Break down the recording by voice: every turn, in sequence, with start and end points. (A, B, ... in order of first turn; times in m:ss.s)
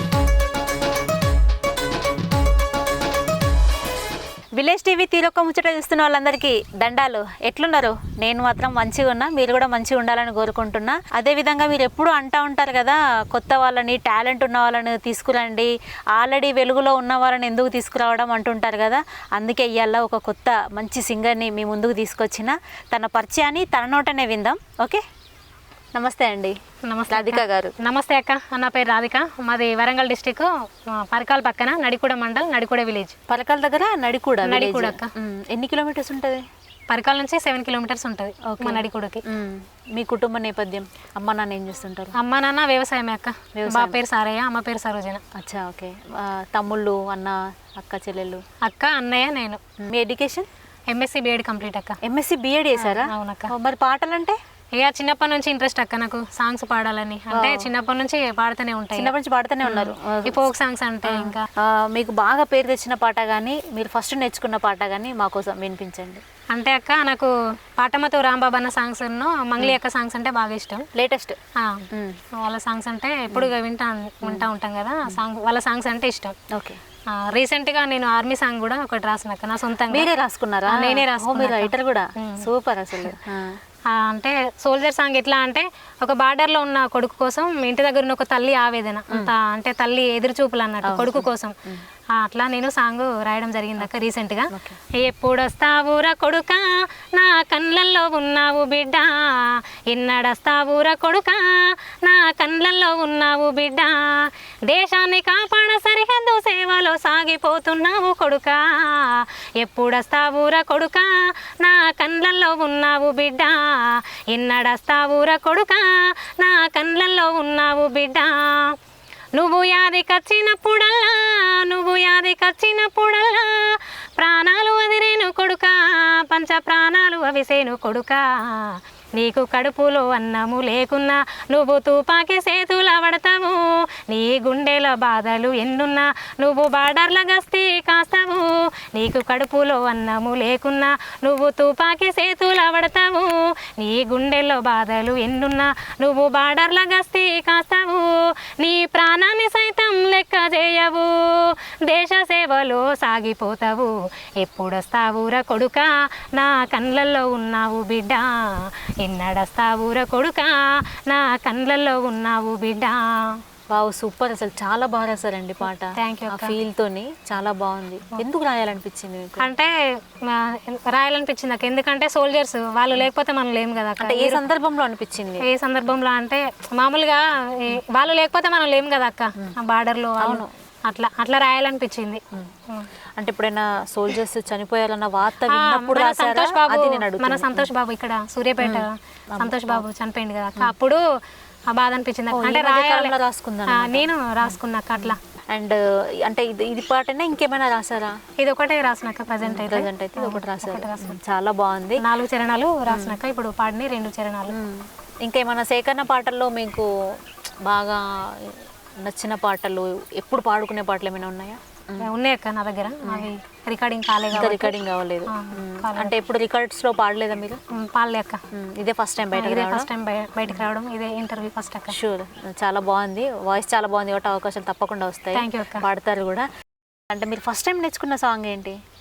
0:04.6-0:25.0 A
0:25.9-0:26.6 A
0:26.9-0:33.2 B
0:27.1-0:27.7 A
0:33.3-0:36.4 A
0:34.4-0:35.1 B
0:36.9-0:39.2 B
0:38.5-0:42.1 A
0:42.1-0:45.2 B
0:43.5-0:44.0 A
0:45.4-0:48.4 A
0:48.6-0:49.6 B
0:49.8-0:50.5 A
0:50.9-0:52.0 B
0:52.0-0:54.4 A
0:52.8-0:53.5 B
0:54.8-0:59.1 B
0:57.3-0:57.7 A
0:58.9-1:00.5 A
0:59.6-1:01.4 B
1:01.0-1:06.2 A
1:06.5-1:10.8 B
1:10.9-1:11.4 A
1:11.6-1:16.4 B
1:11.9-1:12.2 A
1:16.5-1:16.8 A
1:17.1-1:20.1 B
1:19.9-1:23.5 A
1:20.7-1:23.2 B
1:23.9-1:31.6 B
1:30.8-1:31.8 A
1:32.1-1:58.7 B
1:34.5-1:34.8 A
1:59.4-2:43.4 B
2:43.7-2:49.5 A
2:46.0-2:46.6 B
2:49.4-2:49.7 B
2:50.2-2:54.4 B
2:54.0-2:55.4 A
2:55.4-3:02.9 B
3:00.2-3:00.5 A
3:03.2-3:07.7 A
3:05.5-3:11.0 B
3:08.6-3:09.8 A
3:11.7-3:13.1 B
3:12.3-3:18.2 A
3:13.7-3:15.2 B
3:18.4-3:21.2 B
3:19.4-3:22.0 A
3:22.0-3:24.5 B
3:22.9-3:23.2 A
3:24.5-3:26.9 A
3:27.6-3:32.1 A
3:32.0-3:34.7 B
3:33.0-3:33.3 A
3:34.3-3:37.6 A
3:35.3-3:36.1 B
3:37.7-3:38.4 B
3:38.5-3:39.9 A
3:39.3-3:41.9 B
3:41.9-3:46.5 A
3:45.3-3:45.8 B
3:47.1-3:48.8 A